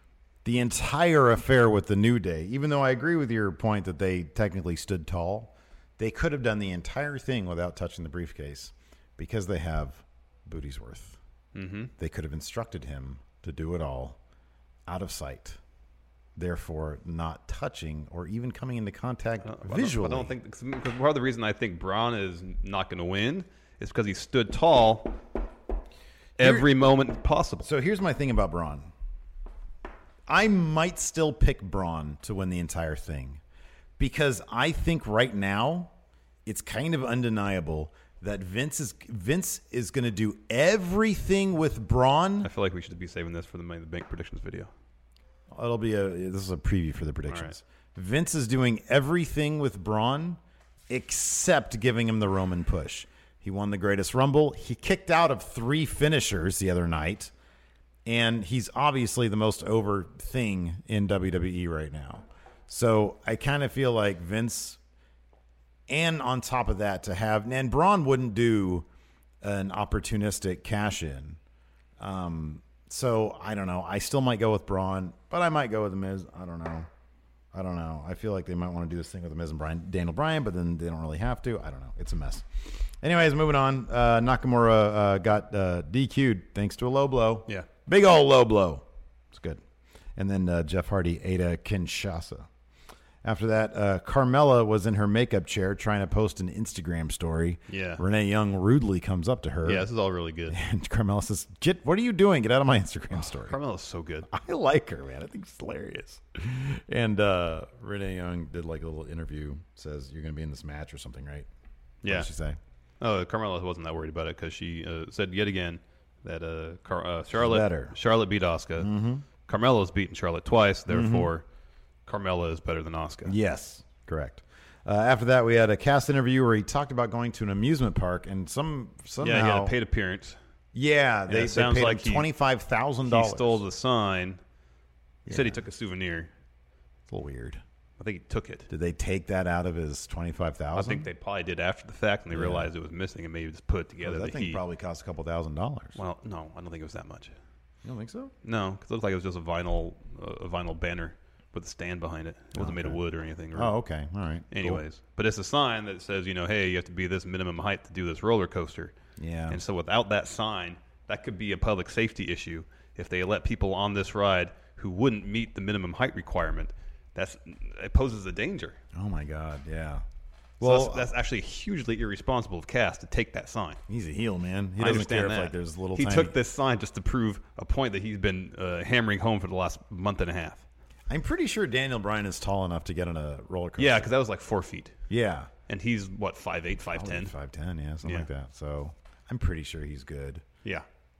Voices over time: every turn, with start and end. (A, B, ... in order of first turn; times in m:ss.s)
0:00.4-0:11.2 A
0:11.5-0:11.9 B
0:12.0-0:14.2 A
0:14.9-0:15.6 A
0:16.4-0:20.3 A
0:19.4-0:25.1 B
0:26.4-0:27.7 B
0:26.4-0:26.7 A
0:27.6-0:28.9 A
0:30.3-0:33.4 A
0:34.0-0:35.9 A
0:36.4-0:42.5 A
0:42.4-0:44.7 B
0:45.5-0:57.3 A
0:47.3-0:47.5 B
0:58.0-1:04.8 A
1:05.9-1:08.9 A
1:09.4-1:11.4 A
1:12.0-1:16.9 A
1:17.5-1:29.6 A
1:30.2-1:32.5 A
1:33.2-1:39.8 A
1:37.7-1:38.0 B
1:39.6-1:40.6 B
1:40.5-1:43.6 A
1:43.4-1:44.3 B
1:44.3-1:51.5 A
1:52.0-1:52.3 B
1:52.0-1:52.6 A
1:53.0-1:58.9 B
1:57.3-1:57.9 A
1:58.8-1:59.2 A
1:59.4-2:01.4 B
2:00.9-2:01.3 A
2:02.0-2:03.4 B
2:03.2-2:09.7 A
2:09.2-2:10.4 B
2:10.7-2:13.6 A
2:11.3-2:12.3 B
2:13.0-2:14.4 B
2:15.2-2:15.6 A
2:15.3-2:16.3 B
2:17.1-2:17.6 A
2:18.0-2:18.7 B
2:18.7-2:21.1 A
2:20.7-2:24.6 B
2:22.3-2:22.7 A
2:24.0-2:26.0 A
2:26.0-2:27.3 B
2:27.8-2:28.3 A
2:28.4-2:33.7 B
2:32.6-2:33.0 A
2:33.5-2:34.8 A
2:34.5-2:38.9 B
2:39.2-2:39.6 A
2:39.5-2:48.8 B
2:48.9-2:50.0 A
2:50.6-2:51.1 A
2:50.6-2:53.8 B
2:53.9-2:56.3 A
2:54.8-3:00.6 B
3:01.1-3:04.1 A
3:03.8-3:05.0 B
3:05.1-3:05.5 A
3:05.7-3:07.3 B
3:06.9-3:10.4 A